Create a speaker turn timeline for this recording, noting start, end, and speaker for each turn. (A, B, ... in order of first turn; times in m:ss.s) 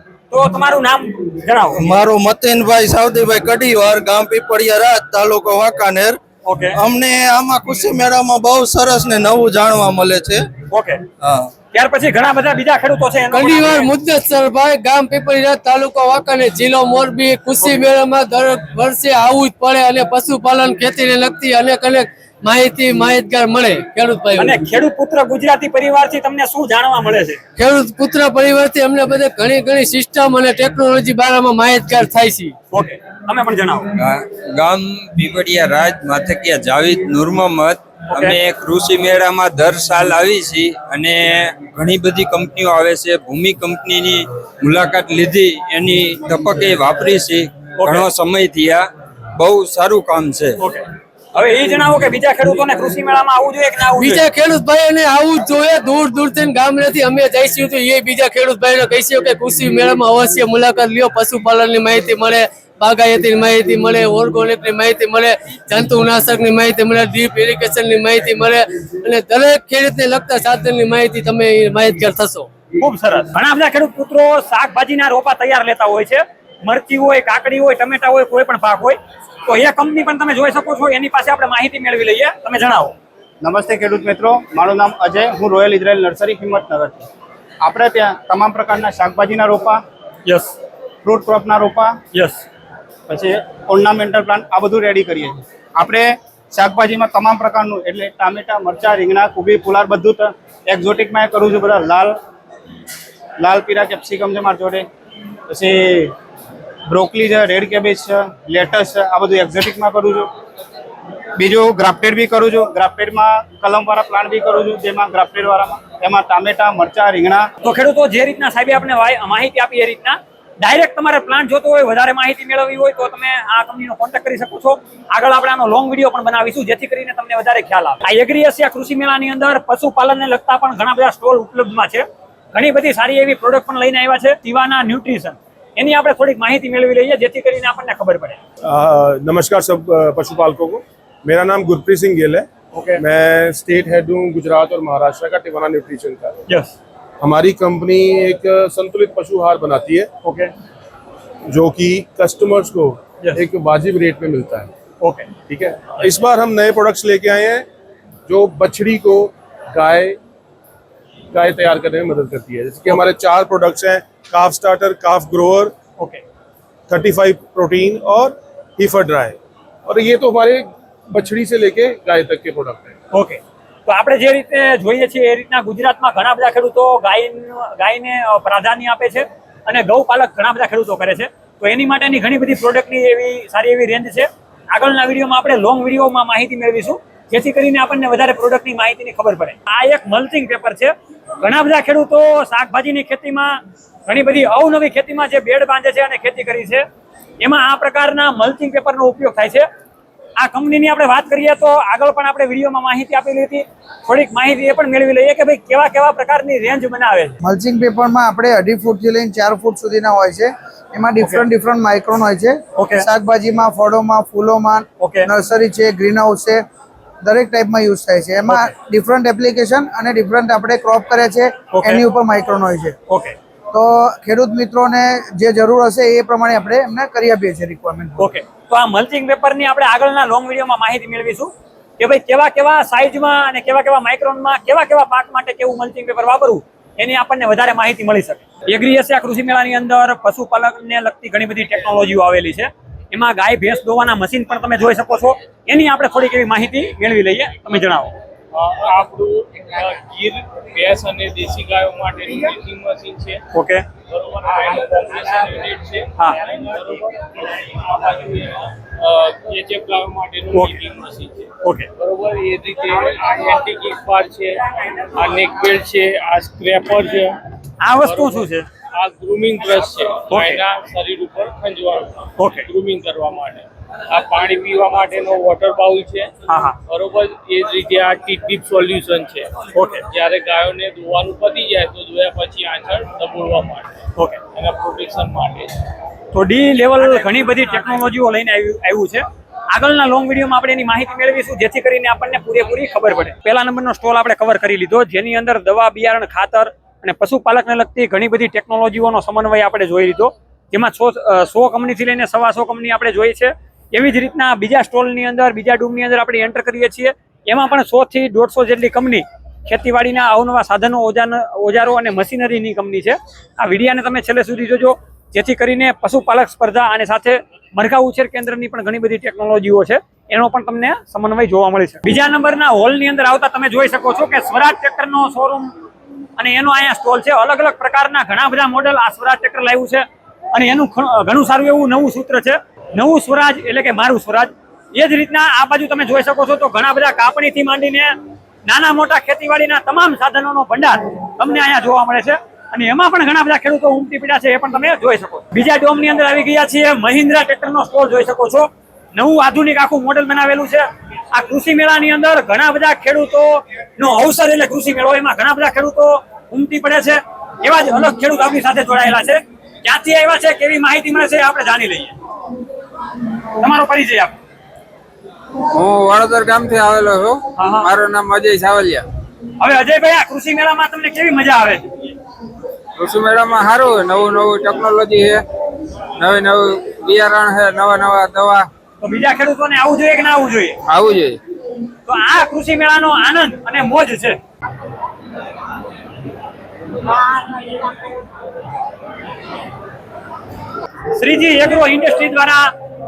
0:00.3-0:02.0 A
0:01.7-0:06.2 B
0:06.4-0:06.8 A
0:06.7-0:10.5 B
0:10.7-0:11.0 A
0:11.2-0:11.5 B
0:11.7-0:13.9 A
0:13.3-0:24.6 C
0:24.4-0:27.4 A
0:27.6-0:32.5 C
0:32.7-0:33.9 A
0:33.9-0:50.6 D
0:38.1-0:38.4 A
0:47.8-0:48.0 A
0:50.6-0:54.2 A
0:54.0-1:12.5 C
1:12.8-1:22.9 A
1:23.4-1:27.1 E
1:27.6-1:29.8 E
1:30.2-1:30.5 A
1:31.0-1:32.0 E
1:32.1-1:32.4 A
1:33.1-1:42.2 E
1:43.4-1:44.9 E
1:45.5-1:46.1 E
1:46.9-1:50.3 E
1:51.4-1:57.5 E
1:57.6-2:18.4 A
2:18.6-2:26.3 F
2:26.5-2:26.7 A
2:27.2-2:30.1 F
2:31.5-2:34.7 F
2:35.0-2:35.3 A
2:35.5-2:37.6 F
2:38.3-2:40.2 F
2:41.3-2:45.7 F
2:46.9-2:52.9 F
2:53.1-3:16.8 A
3:17.4-3:19.7 A
3:20.4-3:27.4 A
3:27.4-3:36.6 G
3:32.8-3:33.0 A
3:35.0-3:35.3 A
3:37.2-3:42.9 G
3:41.7-3:42.0 A
3:43.1-3:43.3 A
3:43.7-3:48.3 G
3:48.2-4:08.1 A
4:08.5-4:13.4 H
4:13.5-4:13.8 A
4:14.1-4:24.6 H
4:21.6-4:21.9 A
4:25.1-4:27.4 H
4:27.8-4:28.7 A
4:28.0-4:36.3 H
4:30.3-4:30.6 A
4:32.4-4:32.7 A
4:36.5-4:36.8 A
4:36.9-4:39.5 H
4:39.7-4:40.0 A
4:40.1-4:43.9 H
4:44.5-4:45.7 H
4:46.3-5:25.7 A
5:26.4-6:02.1 A
6:03.6-6:04.4 A
6:05.7-6:09.1 D
6:07.6-6:07.9 A
6:09.6-6:11.9 A
6:13.0-6:15.4 D
6:16.2-6:18.7 D
6:19.0-6:20.8 A
6:20.9-6:21.4 D
6:22.0-6:24.4 A
6:31.1-6:32.7 A